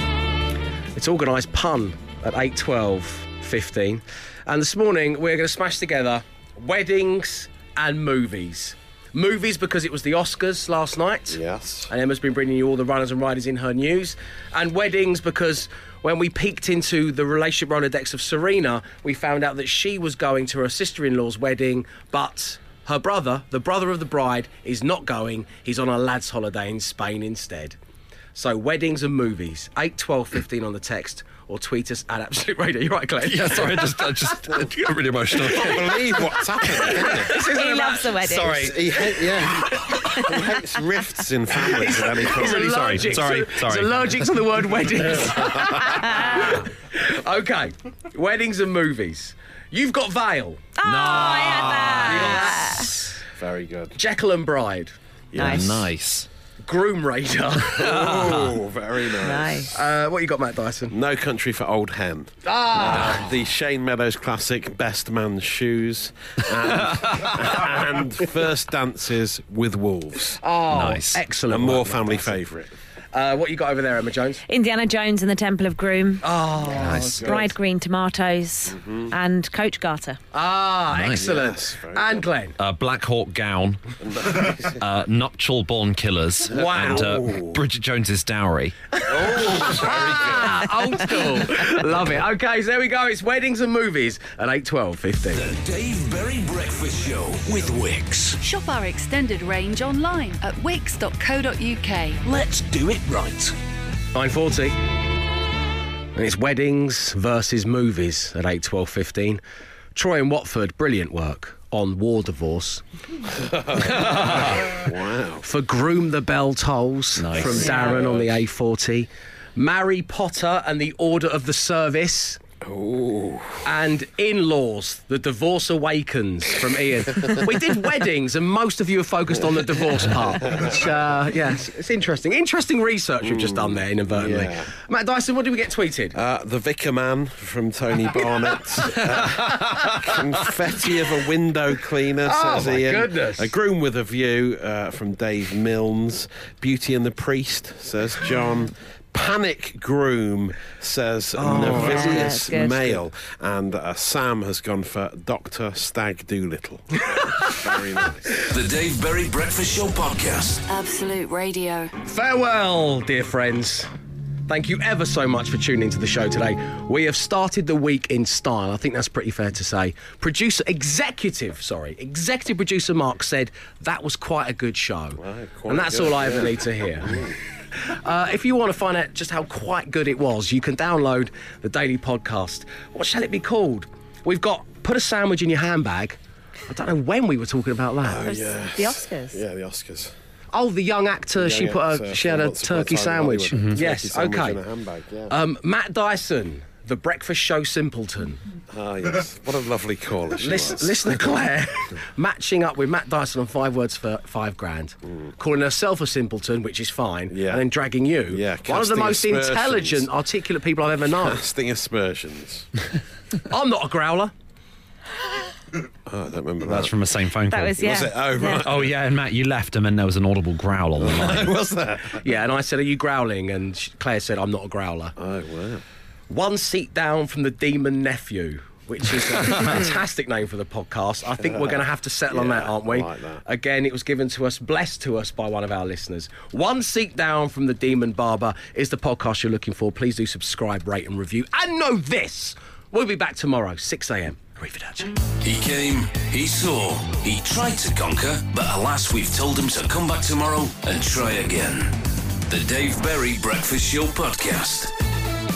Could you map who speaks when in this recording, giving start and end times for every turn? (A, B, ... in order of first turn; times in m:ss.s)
0:01.0-0:27.8 A
0:11.3-0:11.9 B
0:28.3-0:34.2 A
0:33.2-0:36.2 C
0:35.4-0:37.3 B
0:35.5-0:35.8 A
0:36.7-0:38.2 A
0:37.3-0:38.7 D
0:38.2-0:38.9 C
0:38.5-0:43.1 B
0:39.6-0:40.1 A
0:41.6-0:53.2 A
0:42.5-0:44.3 C
0:45.9-0:46.6 D
0:50.8-0:52.9 D
0:51.1-0:51.6 C
0:53.4-0:54.0 B
0:53.9-0:54.9 A
0:55.3-0:55.6 B
0:55.3-0:56.3 C
0:55.4-0:55.9 D
0:56.6-0:58.1 A
0:57.8-0:59.7 B
0:58.0-0:58.5 C
0:59.1-0:59.7 D
0:59.7-1:00.9 A
1:00.9-1:10.4 B
1:02.4-1:03.3 A
1:10.4-1:12.4 A
1:10.7-1:11.2 C
1:11.5-1:12.7 B
1:13.1-1:14.4 A
1:14.5-1:16.2 D
1:16.2-1:17.5 A
1:16.7-1:17.3 C
1:17.2-1:20.2 D
1:18.7-1:19.1 B
1:20.3-1:22.6 A
1:20.9-1:21.2 C
1:21.1-1:22.2 B
1:22.6-1:23.8 C
1:24.0-1:24.8 B
1:24.5-1:28.7 C
1:26.5-1:27.1 A
1:26.7-1:27.6 B
1:29.1-1:30.6 B
1:29.1-1:35.5 A
1:35.3-1:38.4 E
1:38.4-1:42.2 F
1:42.2-1:43.5 E
1:44.1-1:44.8 A
1:46.2-1:49.4 A
1:49.9-1:52.8 A
1:53.4-1:55.4 B
1:53.8-1:54.8 A
1:55.4-2:02.4 A
1:57.2-1:57.7 C
1:57.3-1:58.3 B
2:02.6-2:03.6 B
2:03.6-2:16.2 A
2:10.4-2:10.8 B
2:13.2-2:14.7 B
2:16.1-2:38.3 B
2:18.9-2:20.5 A
2:22.2-2:23.5 A
2:31.4-2:32.3 A
2:31.6-2:33.0 D
2:38.4-2:40.6 E
2:40.7-2:41.9 F
2:42.0-2:43.9 A
2:44.5-2:57.2 A
2:55.2-2:57.4 B
2:57.8-3:08.2 A
3:08.0-3:10.1 B
3:08.2-3:09.4 D
3:10.5-3:14.6 A
3:11.4-3:15.4 B
3:15.3-3:18.4 A
3:18.7-3:21.2 B
3:20.4-3:31.4 A
3:27.3-3:27.6 B
3:28.3-3:30.1 B
3:31.1-3:32.7 B
3:33.5-3:34.3 A
3:36.0-3:37.0 B
3:36.6-3:41.5 C
3:37.5-3:38.6 D
3:37.8-3:38.9 B
3:41.0-3:42.2 B
3:42.2-3:45.1 A
3:45.2-3:45.8 B
3:46.3-4:05.1 A
3:52.3-3:53.4 B
4:05.4-4:12.0 E
4:12.5-4:14.9 E